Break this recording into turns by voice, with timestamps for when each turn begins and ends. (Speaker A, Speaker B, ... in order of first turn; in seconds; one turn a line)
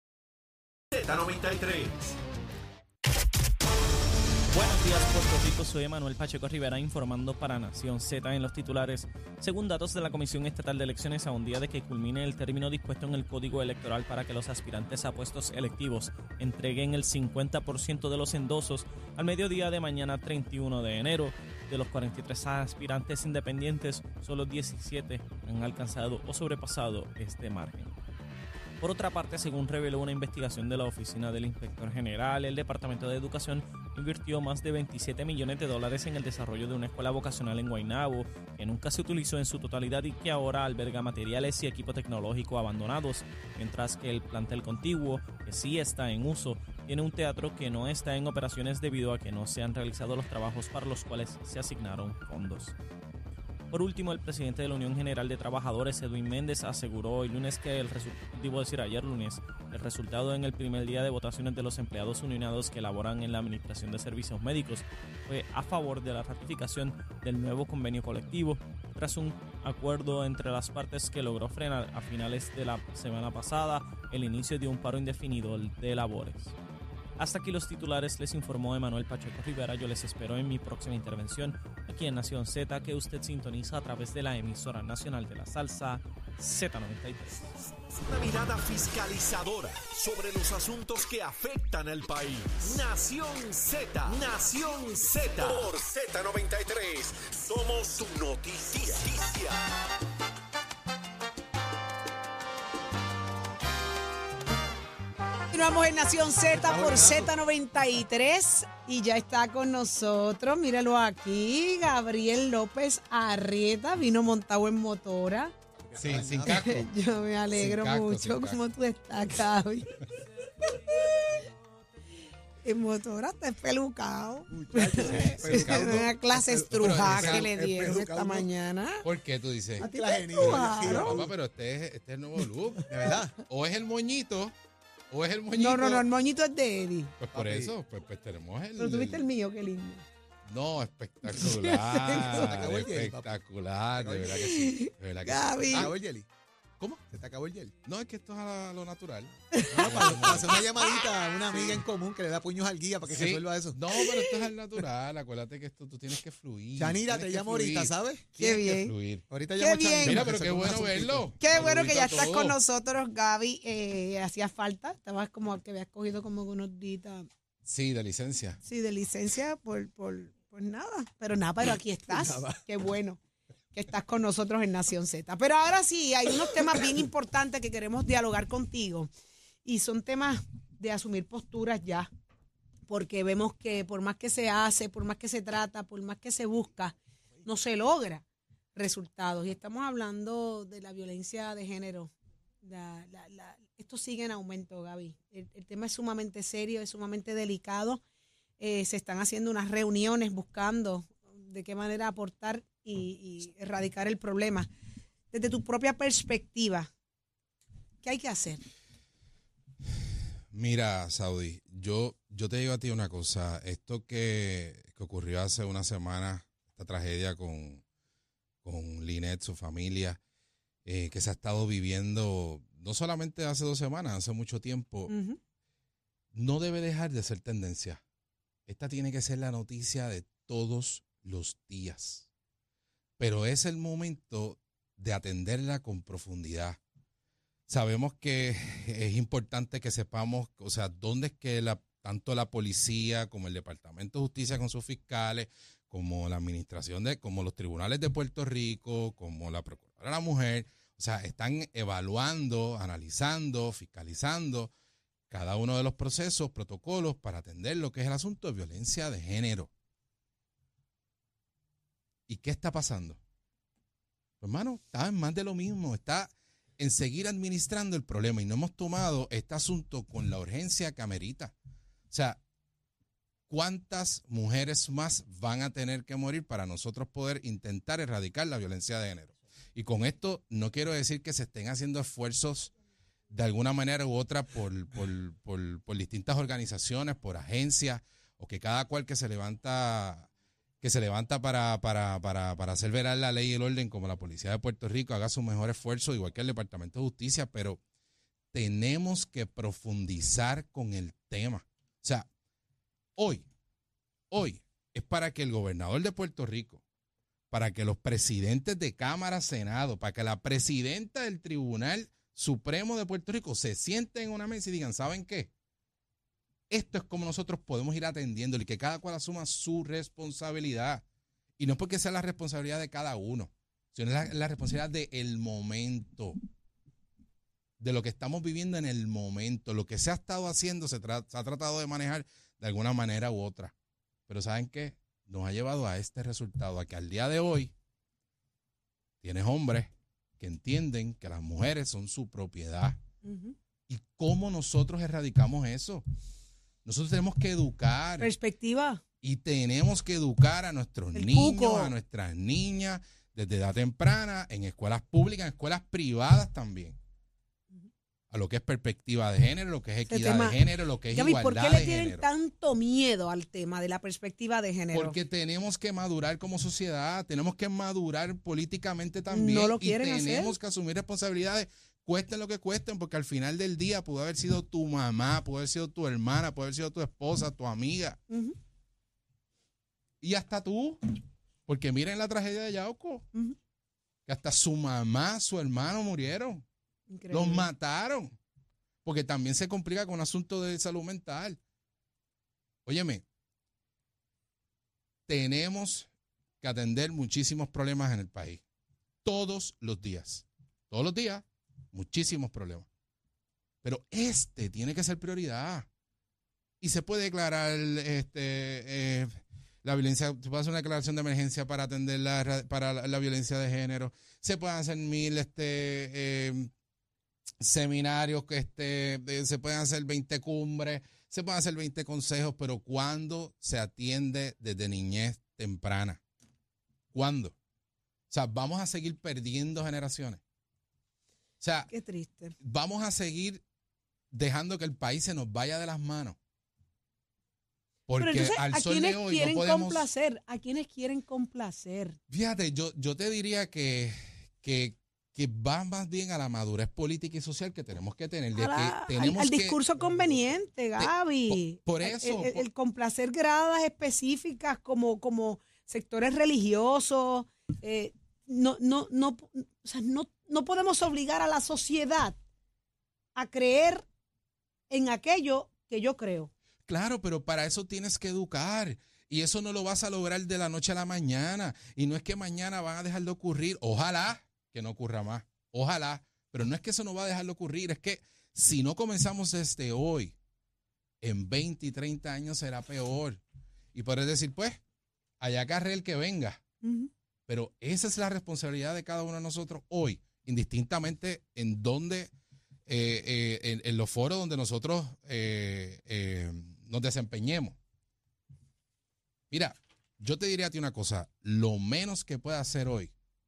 Speaker A: 0.9-2.2
Speaker B: 4.5-27.9
Speaker B: 28.8-52.8
Speaker B: 53.7-76.5
Speaker B: 77.2-87.5
Speaker A: 87.8-99.6
Speaker C: 105.5-115.5
Speaker D: 106.5-107.3
Speaker D: 115.9-116.7
Speaker E: 116.0-116.9
Speaker C: 116.4-120.0
Speaker E: 117.5-118.6
Speaker C: 122.6-129.1
Speaker D: 124.5-128.5
Speaker E: 125.0-126.2
Speaker E: 126.7-127.5
Speaker E: 129.0-134.5
Speaker D: 129.8-131.3
Speaker C: 129.8-131.2
Speaker D: 132.9-133.4
Speaker E: 135.1-136.1
Speaker C: 135.6-137.1
Speaker E: 137.2-139.2
Speaker D: 137.3-137.7
Speaker C: 138.8-140.1
Speaker E: 140.5-146.0
Speaker C: 141.3-142.5
Speaker D: 142.1-143.3
Speaker D: 144.0-144.3
Speaker C: 144.3-145.9
Speaker D: 145.7-146.3
Speaker D: 147.1-147.7
Speaker E: 147.9-150.7
Speaker C: 149.5-150.3
Speaker D: 149.8-153.8
Speaker E: 151.5-151.8
Speaker E: 153.1-159.2
Speaker C: 154.0-154.4
Speaker D: 156.8-158.3
Speaker C: 158.4-158.9
Speaker D: 159.3-161.3
Speaker C: 159.6-160.4
Speaker E: 160.0-162.6
Speaker C: 161.4-167.3
Speaker E: 167.7-168.6
Speaker C: 168.6-173.2
Speaker D: 172.1-172.6
Speaker C: 173.7-179.1
Speaker C: 179.7-182.1
Speaker C: 182.9-188.2
Speaker C: 188.8-198.0
Speaker C: 198.6-204.7
Speaker C: 205.3-206.9
Speaker C: 208.0-208.6
Speaker E: 210.5-217.8
Speaker E: 218.6-220.2
Speaker E: 220.8-225.1
Speaker C: 225.1-225.4
Speaker E: 226.3-228.0
Speaker E: 228.7-232.3
Speaker E: 233.2-236.8
Speaker E: 237.7-254.7
Speaker E: 255.3-259.7
Speaker E: 262.3-263.2
Speaker E: 264.4-271.5
Speaker E: 272.1-272.4
Speaker E: 273.5-282.7
Speaker E: 283.3-290.3
Speaker E: 290.8-297.8
Speaker E: 298.5-302.3
Speaker E: 303.2-303.5
Speaker E: 304.3-306.8
Speaker E: 307.5-315.5
Speaker E: 316.7-321.0
Speaker E: 321.6-326.4
Speaker E: 327.8-333.7
Speaker E: 334.3-337.7
Speaker E: 339.2-343.0
Speaker C: 343.2-343.6
Speaker E: 343.9-346.0
Speaker E: 346.9-348.3
Speaker C: 348.2-349.0
Speaker E: 349.2-357.0
Speaker C: 351.1-351.9
Speaker E: 358.3-362.3
Speaker C: 360.1-360.6
Speaker C: 361.1-365.2
Speaker E: 364.9-378.2
Speaker C: 369.3-370.6
Speaker C: 378.3-378.6
Speaker E: 380.2-381.0
Speaker E: 381.7-383.3
Speaker E: 384.3-386.6
Speaker C: 387.1-387.7
Speaker E: 387.3-388.4
Speaker E: 389.1-391.6
Speaker E: 392.9-393.2
Speaker E: 395.3-396.1
Speaker E: 396.6-398.6
Speaker E: 399.2-402.9
Speaker E: 403.8-405.9
Speaker E: 406.8-416.7
Speaker E: 417.6-426.2
Speaker E: 427.1-427.6
Speaker E: 428.3-430.4
Speaker E: 431.6-431.9
Speaker C: 431.9-432.6
Speaker E: 432.6-433.6
Speaker E: 434.3-436.4
Speaker E: 438.1-440.1
Speaker C: 438.2-442.2
Speaker E: 442.3-449.8
Speaker C: 448.6-462.4
Speaker E: 451.0-452.7
Speaker C: 463.4-464.1
Speaker C: 464.9-466.5
Speaker E: 466.9-480.4
Speaker E: 481.2-483.4
Speaker E: 483.9-484.8
Speaker E: 485.4-486.6
Speaker C: 486.8-487.1
Speaker E: 487.5-492.3
Speaker E: 492.9-497.8
Speaker E: 499.5-503.1